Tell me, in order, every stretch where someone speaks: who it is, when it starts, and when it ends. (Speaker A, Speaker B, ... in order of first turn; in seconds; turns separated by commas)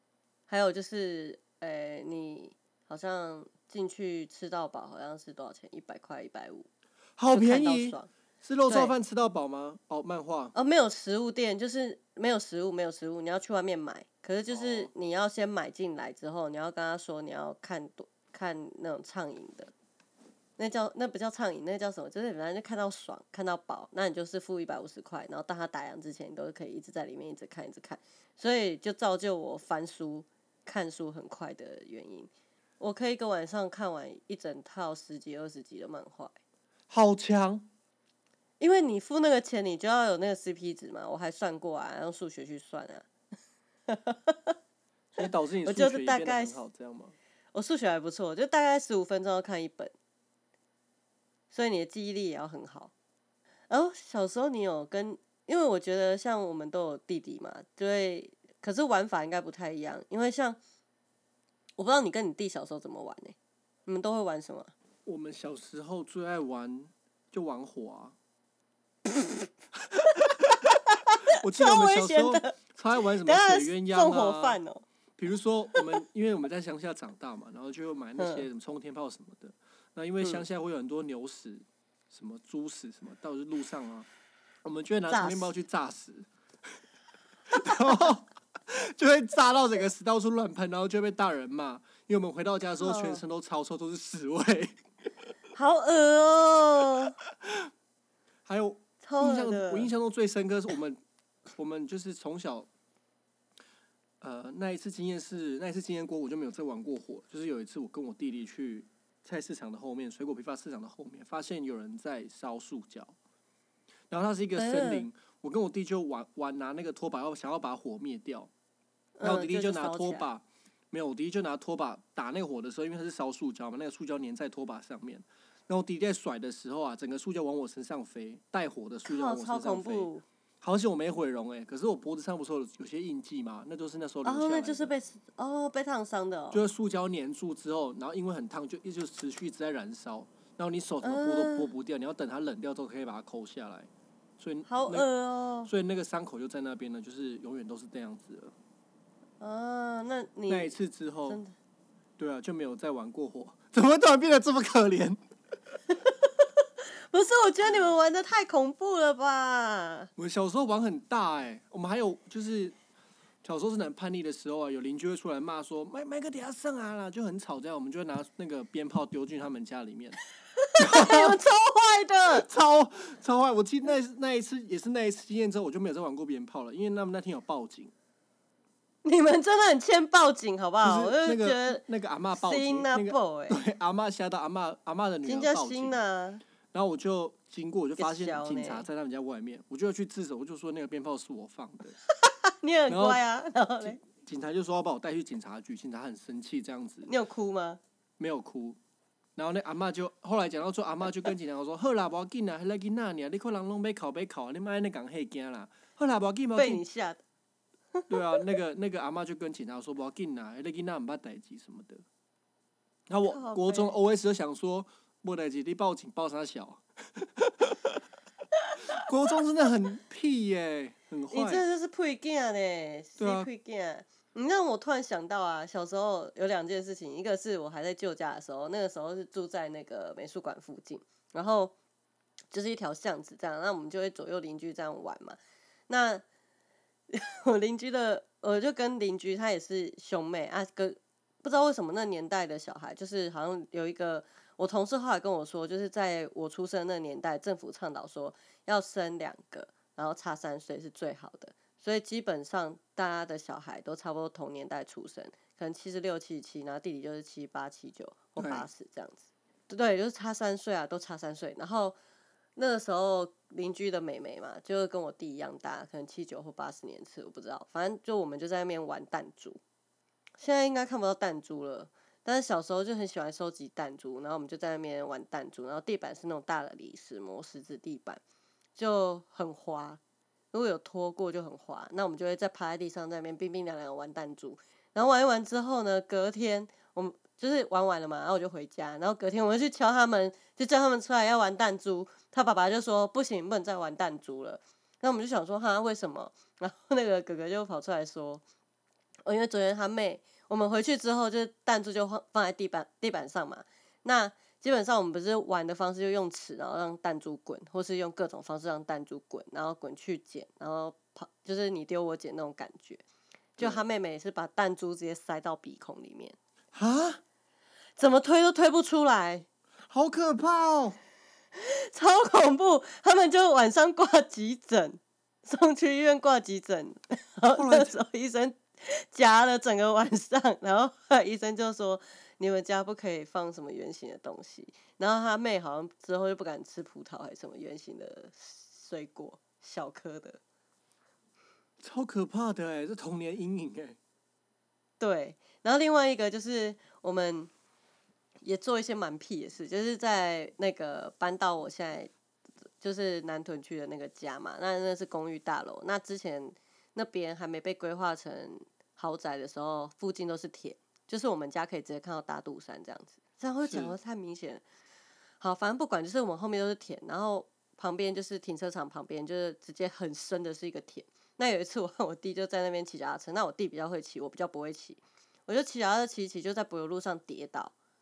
Speaker A: 0.5-6.7, Speaker B: 7.2-10.5, Speaker A: 7.3-8.1, Speaker A: 10.5-19.7, Speaker B: 14.5-14.9, Speaker A: 20.6-36.3, Speaker B: 36.9-37.7, Speaker A: 38.6-43.1, Speaker A: 43.9-44.5, Speaker B: 45.1-47.1, Speaker A: 45.6-46.6, Speaker A: 47.5-49.9, Speaker A: 51.5-52.9, Speaker A: 53.7-60.6, Speaker A: 61.8-64.7, Speaker B: 65.0-68.2, Speaker A: 69.1-69.5, Speaker B: 69.8-70.8, Speaker A: 71.1-72.5, Speaker B: 71.3-74.6, Speaker A: 73.2-74.8, Speaker B: 75.2-84.1, Speaker A: 78.2-78.5, Speaker B: 84.6-86.3, Speaker A: 85.1-85.5, Speaker B: 87.5-94.8, Speaker A: 87.6-88.0, Speaker A: 92.8-93.2, Speaker A: 95.5-97.1, Speaker B: 97.4-97.7, Speaker B: 98.5-101.0, Speaker A: 99.0-99.9, Speaker B: 101.6-102.7, Speaker B: 104.2-113.1, Speaker B: 114.1-118.5, Speaker A: 114.5-115.1, Speaker A: 119.2-120.3, Speaker B: 119.2-130.1, Speaker A: 129.1-130.2, Speaker B: 130.6-134.9, Speaker A: 134.2-136.6, Speaker B: 136.5-145.1, Speaker A: 141.0-141.7, Speaker A: 144.7-145.7, Speaker B: 145.6-148.5, Speaker A: 149.4-150.7, Speaker B: 150.5-151.4, Speaker A: 151.3-151.5, Speaker B: 152.2-155.2, Speaker A: 155.9-160.1, Speaker B: 160.2-162.8, Speaker B: 163.4-170.2, Speaker A: 170.6-172.4, Speaker B: 170.8-171.3, Speaker B: 172.3-177.9, Speaker A: 179.0-181.8, Speaker B: 180.8-186.0, Speaker A: 182.3-183.6, Speaker A: 185.2-186.4, Speaker B: 186.7-192.0, Speaker A: 188.0-188.9, Speaker A: 192.1-194.0, Speaker B: 192.9-193.2, Speaker B: 194.0-197.1, Speaker A: 197.1-197.8, Speaker B: 198.2-198.8, Speaker B: 199.4-206.8, Speaker A: 206.6-207.2, Speaker B: 208.1-212.0, Speaker B: 213.1-218.0, Speaker A: 213.3-213.9, Speaker B: 218.9-221.6, Speaker A: 221.3-231.7, Speaker B: 223.2-223.5, Speaker A: 232.5-235.4, Speaker A: 235.9-236.2, Speaker A: 237.1-262.0, Speaker B: 258.4-258.7, Speaker A: 262.6-269.6, Speaker A: 270.4-278.2, Speaker A: 278.8-280.0, Speaker A: 280.5-298.4, Speaker A: 299.2-313.0, Speaker A: 313.6-316.4, Speaker B: 316.7-317.2, Speaker A: 318.0-319.4, Speaker B: 319.9-321.0, Speaker A: 321.6-340.4, Speaker B: 327.5-328.0, Speaker B: 341.8-344.0, Speaker A: 345.0-347.5, Speaker A: 348.4-352.1, Speaker A: 352.8-364.6, Speaker B: 363.6-363.9, Speaker A: 365.4-377.7